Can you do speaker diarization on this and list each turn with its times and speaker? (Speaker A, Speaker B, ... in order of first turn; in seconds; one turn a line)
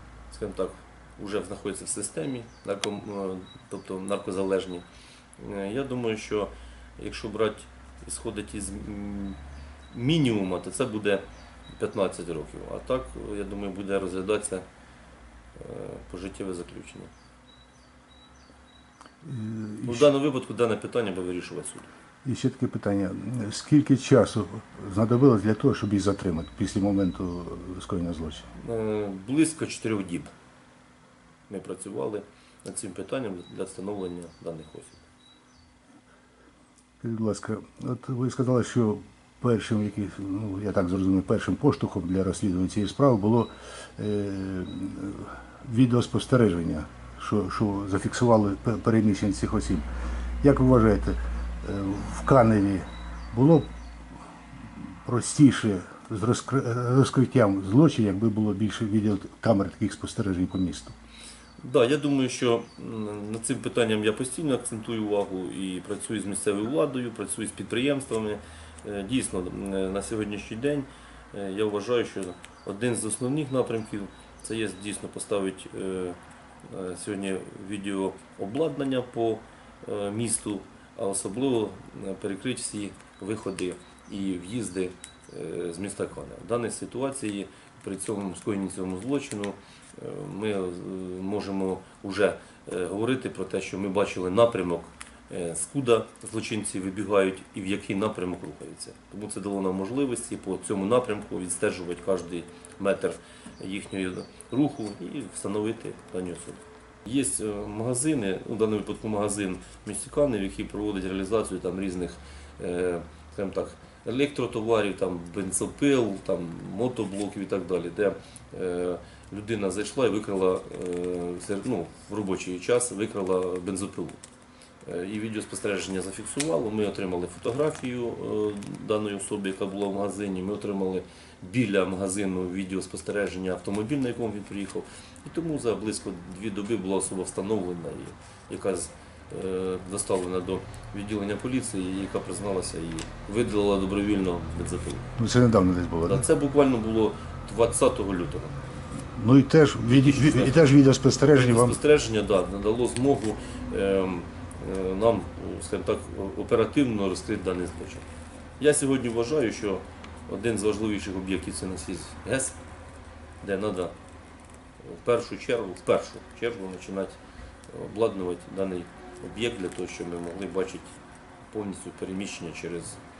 Speaker A: 0.3-4.8
Speaker A: 5.4-9.4
Speaker A: 9.9-11.2
Speaker A: 11.8-14.6
Speaker A: 15.6-17.1
Speaker B: 19.2-20.1
Speaker A: 19.8-21.9
Speaker B: 22.2-28.5
Speaker A: 28.6-30.3
Speaker A: 31.5-35.0
Speaker B: 37.0-49.8
Speaker B: 50.4-53.7
Speaker B: 54.7-60.9
Speaker A: 61.6-124.2
Speaker A: 124.8-145.0
Speaker B: 145.2-146.2
Speaker A: 146.1-148.5
Speaker B: 149.1-151.8
Speaker A: 149.9-150.6
Speaker A: 151.3-158.1
Speaker A: 158.6-162.6
Speaker A: 163.4-163.9
Speaker A: 164.8-167.2
Speaker A: 167.7-170.9
Speaker A: 171.5-173.0